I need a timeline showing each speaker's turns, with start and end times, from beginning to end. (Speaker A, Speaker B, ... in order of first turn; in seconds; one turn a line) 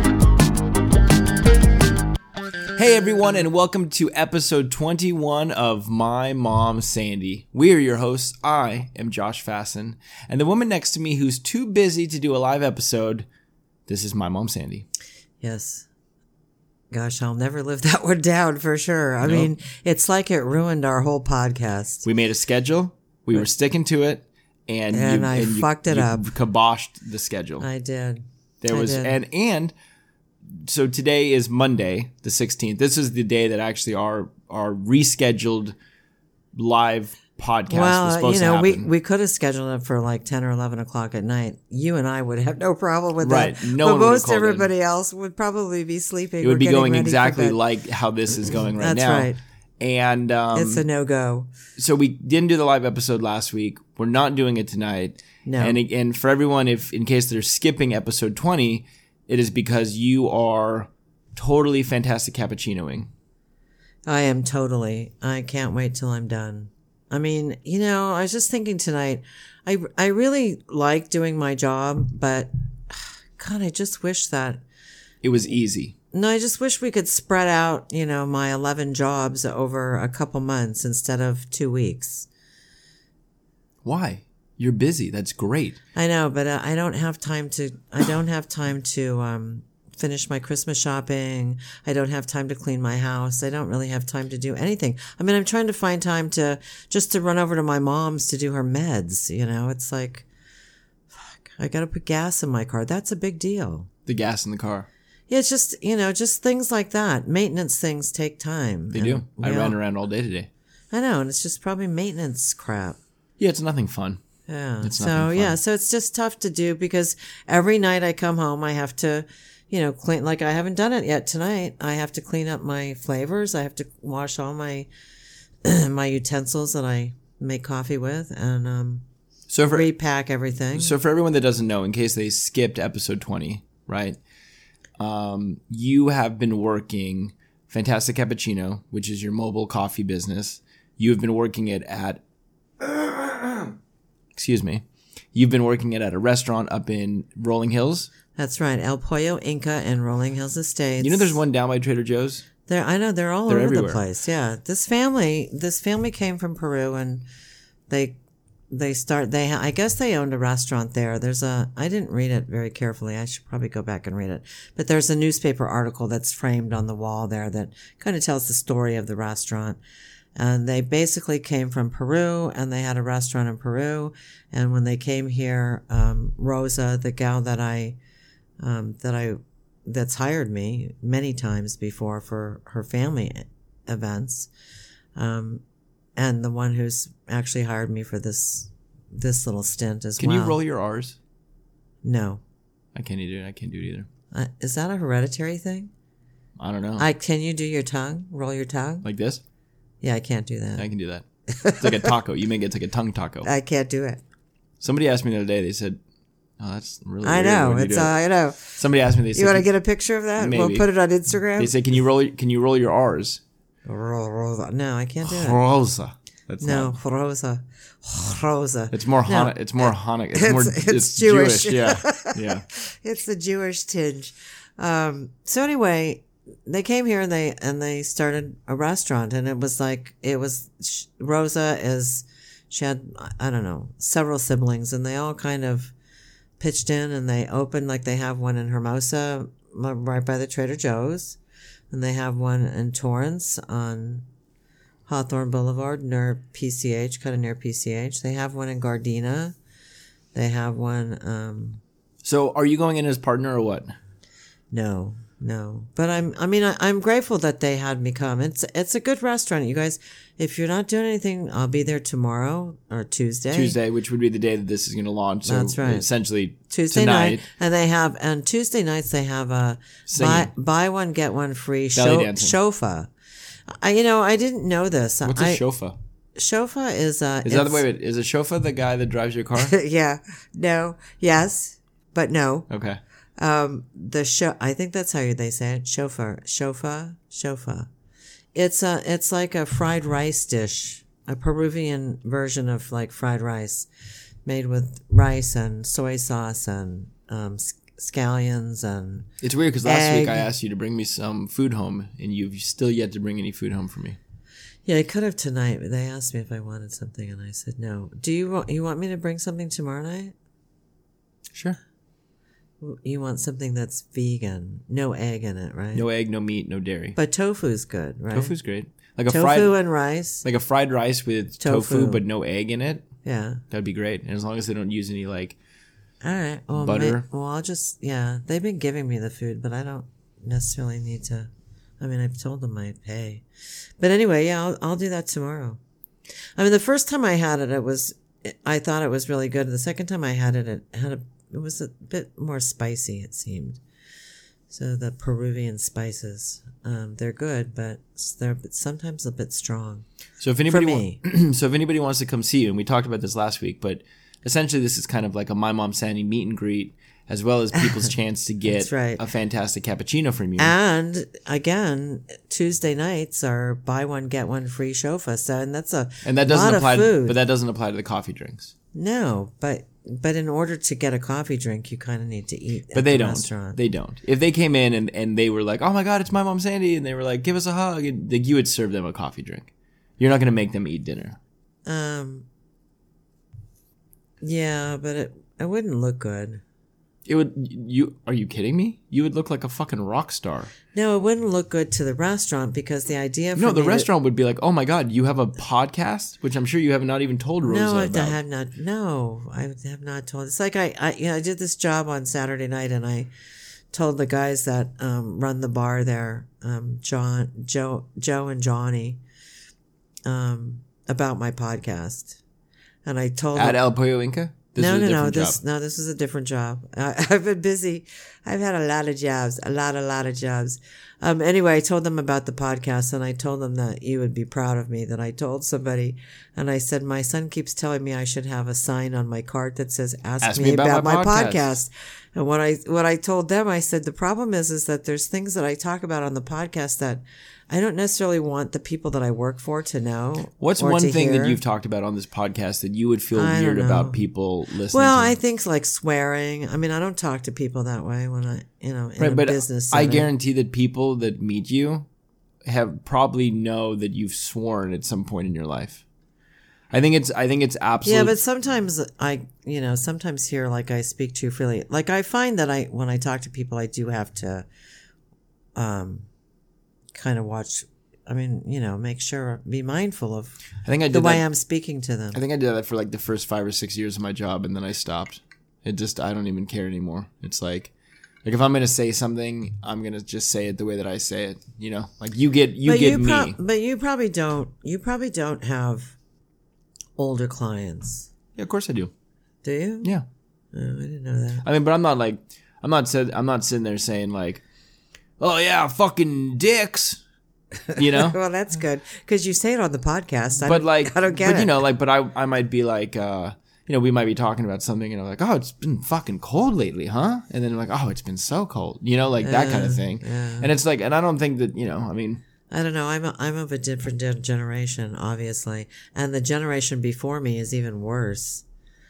Speaker A: 2.8-13.3
Speaker A: 13.9-14.8
Speaker B: 15.4-15.8
Speaker B: 16.9-22.1
Speaker A: 19.2-19.5
Speaker A: 22.0-27.7
Speaker B: 24.9-26.3
Speaker B: 27.6-29.2
Speaker A: 28.6-29.7
Speaker A: 30.5-35.8
Speaker A: 36.5-38.9
Speaker B: 37.7-47.6
Speaker A: 43.2-44.7
Speaker A: 46.4-50.8
Speaker B: 48.8-49.4
Speaker B: 50.5-51.5
Speaker A: 51.8-63.1
Speaker B: 55.4-55.8
Speaker B: 64.0-74.6
Speaker A: 75.2-75.9
Speaker B: 76.1-82.3
Speaker A: 83.8-85.8
Speaker B: 85.9-100.2
Speaker B: 101.1-103.9
Speaker A: 104.0-104.9
Speaker B: 105.3-109.8
Speaker A: 108.9-110.5
Speaker B: 110.9-113.0
Speaker A: 113.4-114.2
Speaker B: 114.5-124.9
Speaker A: 114.8-115.6
Speaker B: 125.6-129.0
Speaker A: 129.5-129.9
Speaker B: 129.7-131.0
Speaker A: 130.7-134.2
Speaker A: 135.0-142.2
Speaker A: 142.8-143.7
Speaker A: 144.3-144.8
Speaker A: 145.3-148.1
Speaker B: 148.3-151.4
Speaker A: 151.0-152.4
Speaker B: 152.7-157.2
Speaker A: 153.5-154.0
Speaker B: 157.9-158.2
Speaker B: 158.7-169.8
Speaker B: 170.3-178.0
Speaker B: 178.6-184.5
Speaker B: 185.2-185.6
Speaker B: 186.2-190.6
Speaker A: 190.2-191.2
Speaker B: 192.0-192.4
Speaker A: 192.9-194.1
Speaker B: 194.3-195.9
Speaker A: 196.6-197.1
Speaker B: 197.0-199.1
Speaker A: 199.0-199.4
Speaker B: 200.0-200.9
Speaker A: 200.8-203.5
Speaker B: 201.5-202.1
Speaker B: 203.4-204.2
Speaker A: 204.8-206.0
Speaker A: 206.6-208.1
Speaker B: 207.2-208.8
Speaker A: 208.8-209.7
Speaker B: 209.3-211.7
Speaker A: 210.4-210.8
Speaker A: 211.6-213.4
Speaker B: 213.8-215.6
Speaker A: 215.2-217.0
Speaker B: 216.6-235.9
Speaker A: 218.9-222.7
Speaker B: 236.6-241.4
Speaker B: 241.9-244.2
Speaker B: 245.1-249.6
Speaker B: 250.3-251.8
Speaker A: 252.2-253.9
Speaker B: 254.7-263.8
Speaker A: 263.5-267.4
Speaker B: 265.4-266.1
Speaker B: 266.7-273.1
Speaker A: 270.1-270.5
Speaker A: 271.9-272.6
Speaker B: 273.7-275.6
Speaker A: 275.2-276.0
Speaker B: 276.4-277.8
Speaker A: 277.4-279.7
Speaker B: 279.6-282.7
Speaker A: 282.7-283.0
Speaker B: 283.4-287.9
Speaker B: 288.5-293.9
Speaker B: 294.4-299.3
Speaker A: 299.4-304.2
Speaker B: 299.8-300.5
Speaker B: 304.9-310.3
Speaker A: 311.5-311.8
Speaker B: 312.8-316.0
Speaker A: 315.9-317.2
Speaker B: 317.1-318.6
Speaker A: 318.3-319.8
Speaker B: 319.3-320.4
Speaker A: 320.4-323.1
Speaker B: 321.6-322.2
Speaker B: 323.2-323.6
Speaker A: 323.7-325.6
Speaker B: 326.2-333.4
Speaker A: 326.8-327.2
Speaker B: 334.0-335.8
Speaker B: 336.6-343.8
Speaker B: 344.7-350.0
Speaker A: 350.4-360.7
Speaker B: 350.7-351.2
Speaker B: 357.8-358.0
Speaker B: 358.6-359.2
Speaker B: 360.6-367.4
Speaker A: 366.2-368.7
Speaker B: 368.9-373.8
Speaker A: 372.9-381.4
Speaker B: 381.9-382.5
Speaker B: 384.4-386.6
Speaker A: 387.2-390.7
Speaker B: 390.9-394.1
Speaker A: 393.6-398.4
Speaker B: 397.6-403.3
Speaker B: 403.9-409.2
Speaker B: 410.2-412.4
Speaker B: 413.0-413.8
Speaker A: 413.5-415.6
Speaker B: 414.8-441.6
Speaker A: 430.4-431.7
Speaker A: 440.6-445.4
Speaker B: 443.3-444.2
Speaker B: 444.9-450.3
Speaker A: 449.2-452.1
Speaker A: 452.6-456.0
Speaker A: 456.9-458.4
Speaker B: 458.0-464.6
Speaker B: 465.8-466.3
Speaker B: 467.1-470.6
Speaker A: 470.8-471.4
Speaker B: 471.1-472.4
Speaker A: 472.3-477.9
Speaker A: 478.4-483.6
Speaker B: 482.8-486.2
Speaker B: 487.2-488.3
Speaker A: 488.6-489.1
Speaker B: 489.6-490.1
Speaker B: 490.7-491.6
Speaker A: 491.6-494.6
Speaker A: 495.4-497.2
Speaker B: 497.9-501.7
Speaker A: 497.9-498.4
Speaker A: 500.7-512.4
Speaker B: 509.4-510.7
Speaker B: 512.7-518.6